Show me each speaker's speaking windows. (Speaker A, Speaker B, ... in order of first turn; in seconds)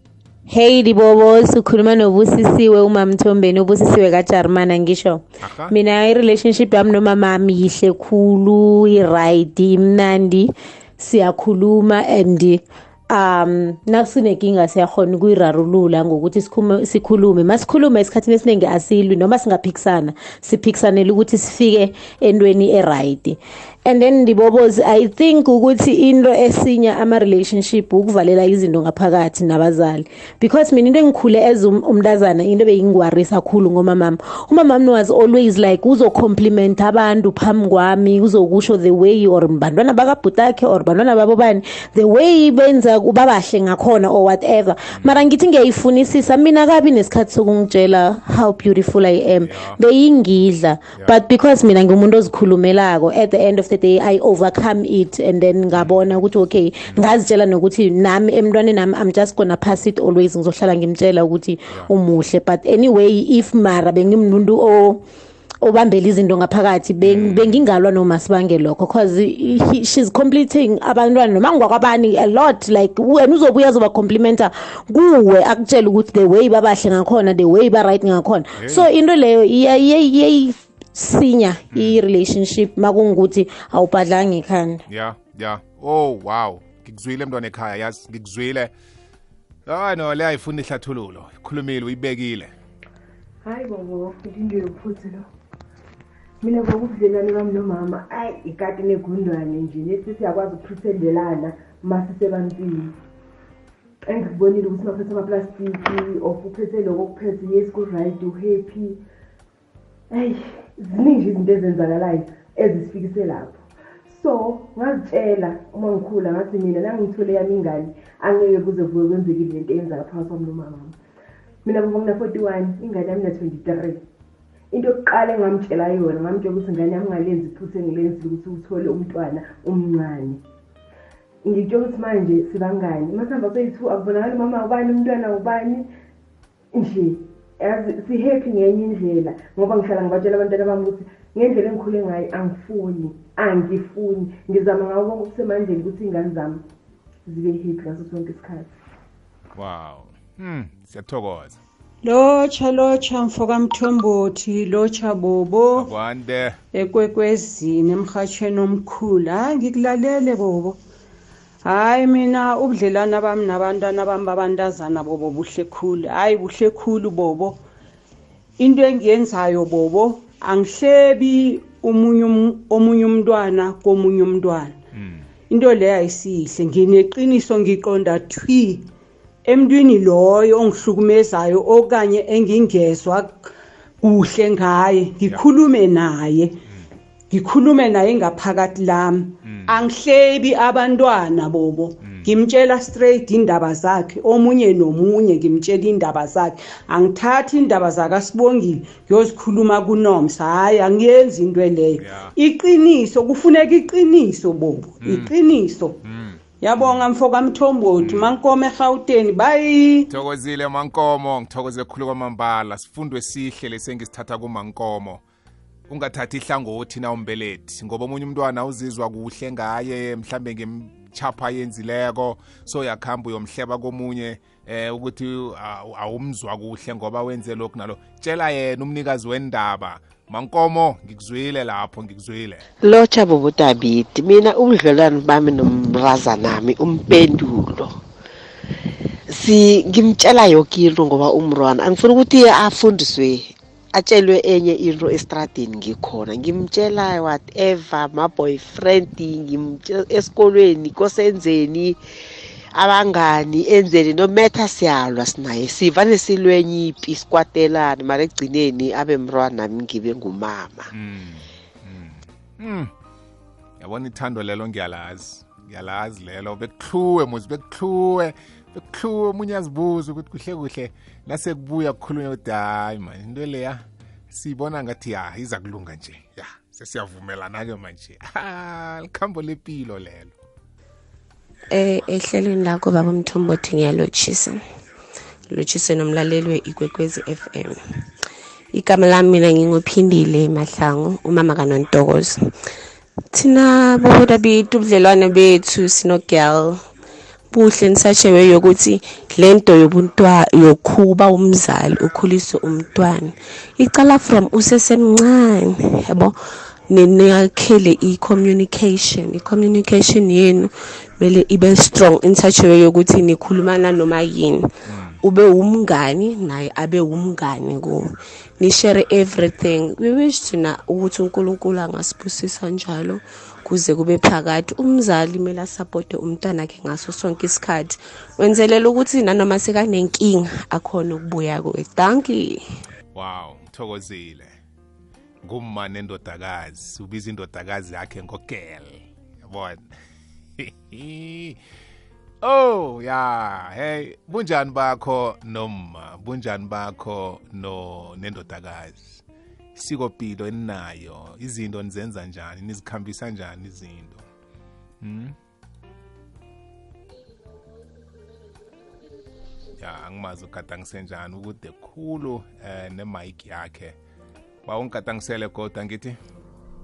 Speaker A: 0.5-65.0, 65.6-84.8
Speaker B: 5.4-5.8, 44.9-45.3, 49.4-49.8, 67.0-67.7, 78.6-78.9, 81.7-82.0, 84.9-88.7, 89.7-92.5, 149.5-151.6, 155.8-156.6, 174.9-175.3, 189.4-189.8, 192.0-192.3, 202.0-202.4, 205.0-205.4, 206.0-207.1, 208.0-208.4, 210.1-215.2, 215.9-232.6, 260.9-262.9, 263.8-280.4, 314.9-315.2, 333.1-334.6, 335.4-339.8, 340.6-341.6, 342.4-349.2, 349.8-354.3, 355.0-355.4, 359.8-364.0, 364.7-366.2
Speaker C: 93.4-95.3, 96.4-103.0, 104.1-109.0, 110.1-121.0, 121.7-124.0, 124.7-130.4, 131.4-135.9, 136.7-146.6, 147.3-148.7
Speaker D: 152.0-155.8, 156.7-160.8, 161.7-167.6, 168.6-174.8, 175.5-178.9, 179.4-186.6, 187.3-206.0, 206.6-210.1
Speaker E: 232.8-237.9, 239.3-252.0, 252.7-260.9
Speaker F: 281.7-284.6, 285.5-287.8, 288.8-292.4, 293.3-296.7, 297.5-306.3, 306.9-314.6, 315.2-318.0, 318.6-332.6